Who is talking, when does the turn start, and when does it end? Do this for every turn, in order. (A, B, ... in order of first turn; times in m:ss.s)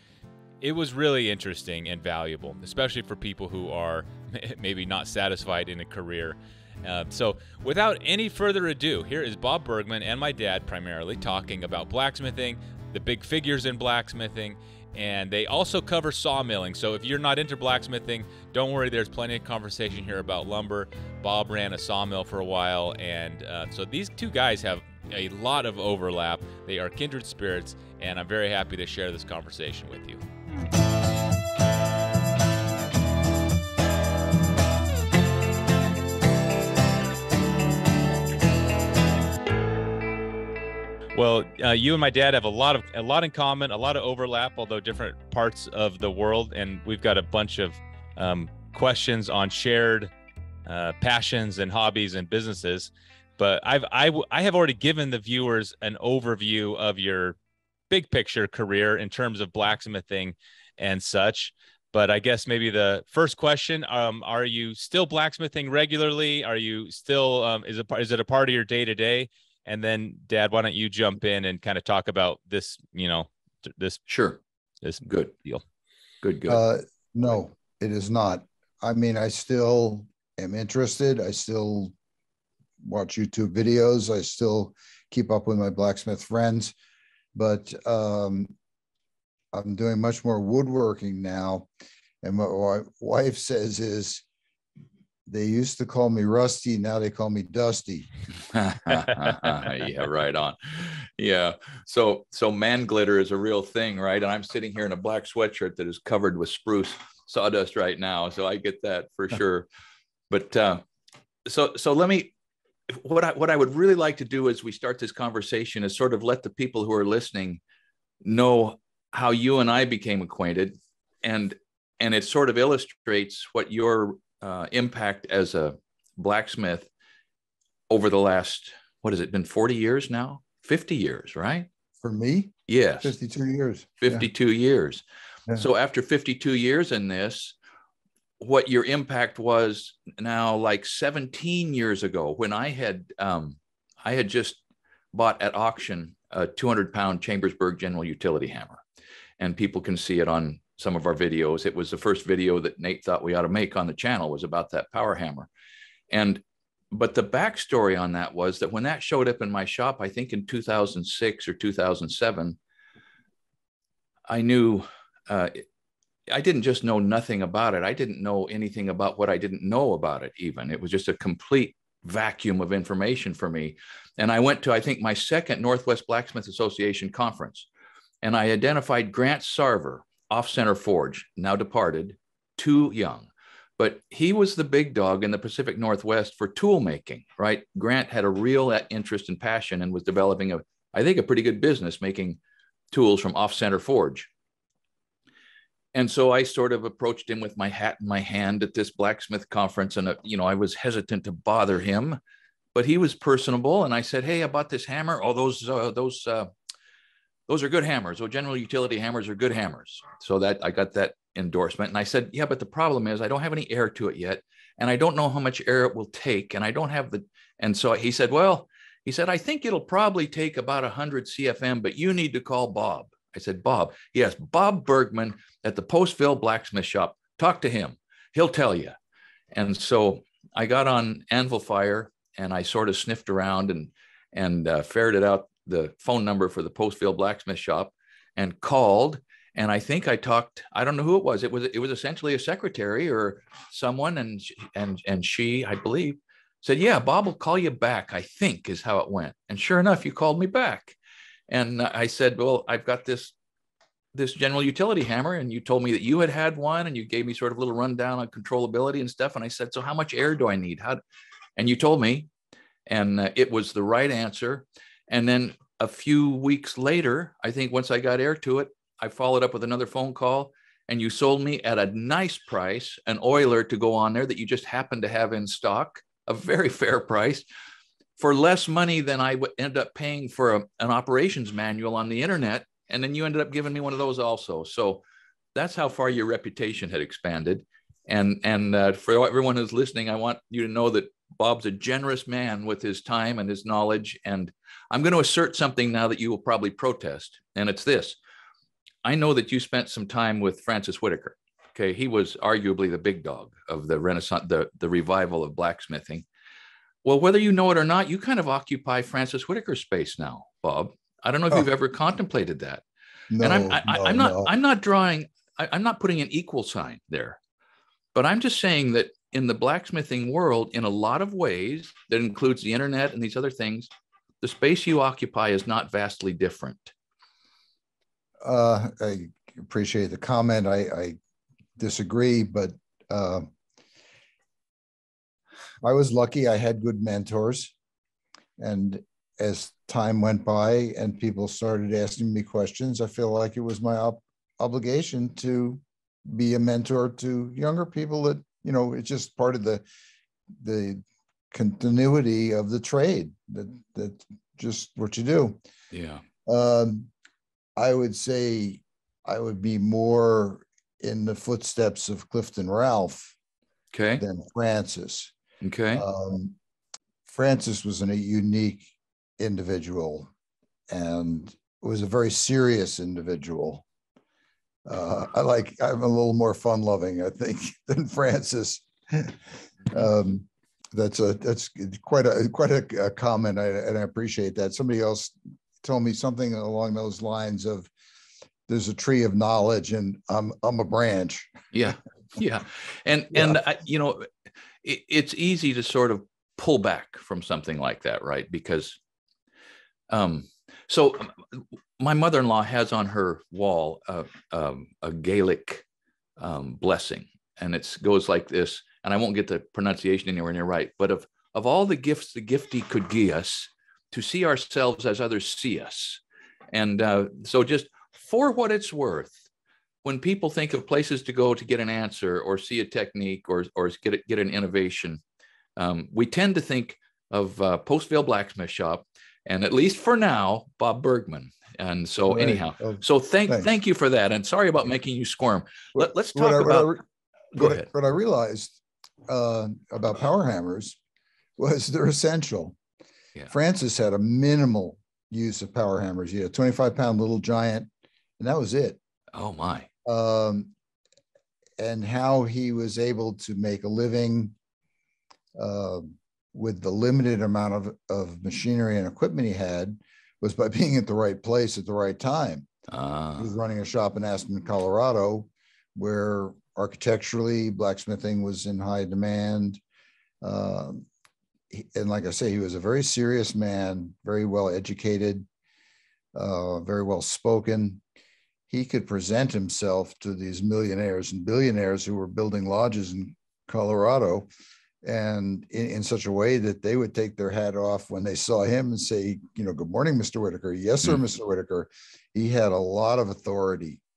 0:00.6-0:30.2 A
0:41.2-0:50.1 A
0:50.6-0:57.4 A
0:57.9-1:14.0 A
1:14.1-1:14.4 B
1:14.8-1:15.6 A
1:15.0-1:15.3 B
1:16.2-1:16.6 B
1:16.5-1:21.9 C
1:22.8-1:26.7 C
1:27.3-1:28.5 C
1:29.5-1:31.7 C
1:32.2-1:34.2 C
1:35.3-1:38.1 C
1:38.5-1:49.6 B
1:50.3-1:50.8 B
1:51.4-1:52.3 B
1:52.9-1:57.6 B
1:58.2-2:06.9 B
2:07.9-2:11.7 B
2:12.0-2:14.3 C
2:12.7-2:13.1 B
2:14.0-2:17.6 B
2:18.4-2:24.6 B
2:25.1-2:28.8 B
2:29.4-2:35.5 B
2:36.1-2:42.6 B
2:44.3-2:45.6 B
2:46.3-2:57.7 B
2:58.2-3:12.4 B
3:12.9-3:14.3 B
3:15.9-3:22.2 B
3:22.7-3:26.5 B
3:27.5-3:49.0 B
3:49.5-4:11.0 B
4:11.5-4:13.3 B
4:14.1-4:21.0 B
4:21.6-4:22.3 B
4:22.9-4:37.4 B
4:38.2-4:45.0 B
4:45.5-4:58.2 B
4:59.0-5:06.2 B
5:07.0-5:12.8 B
5:13.3-5:14.5 C
5:13.4-5:17.4 B
5:18.1-5:23.9 B
5:24.4-5:26.9 B
5:28.4-5:31.2 C
5:31.8-5:33.5 C
5:35.8-5:37.7 C
5:38.6-5:49.8 C
5:50.5-5:55.6 C
5:55.9-5:56.2 B
5:56.4-5:57.1 C
5:57.8-6:03.3 C
6:03.9-6:04.2 B
6:04.2-6:05.3 C
6:05.6-6:06.0 B
6:05.9-6:06.6 C
6:07.3-6:10.3 C
6:10.9-6:13.8 C
6:14.8-6:27.9 C
6:28.7-6:31.5 C
6:31.7-6:34.3 B
6:33.3-6:33.6 C
6:34.8-6:39.0 B
6:40.1-6:45.8 B
6:46.4-6:56.2 B
6:56.7-6:59.4 B
7:00.0-7:05.2 B
7:05.8-7:17.0 B
7:12.3-7:13.7 C
7:15.9-7:17.0 C
7:17.5-7:18.8 C
7:17.6-7:17.9 B
7:19.3-7:21.0 C
7:21.6-7:22.8 C
7:23.5-7:29.0 C
7:29.3-7:29.9 B
7:30.0-7:30.7 C
7:31.8-7:34.5 C
7:35.6-7:42.7 C
7:42.9-7:43.5 B
7:43.4-7:49.8 C
7:50.4-7:51.1 C
7:51.7-7:55.5 C
7:56.3-7:58.0 C
7:58.7-8:04.5 C
8:05.0-8:14.0 C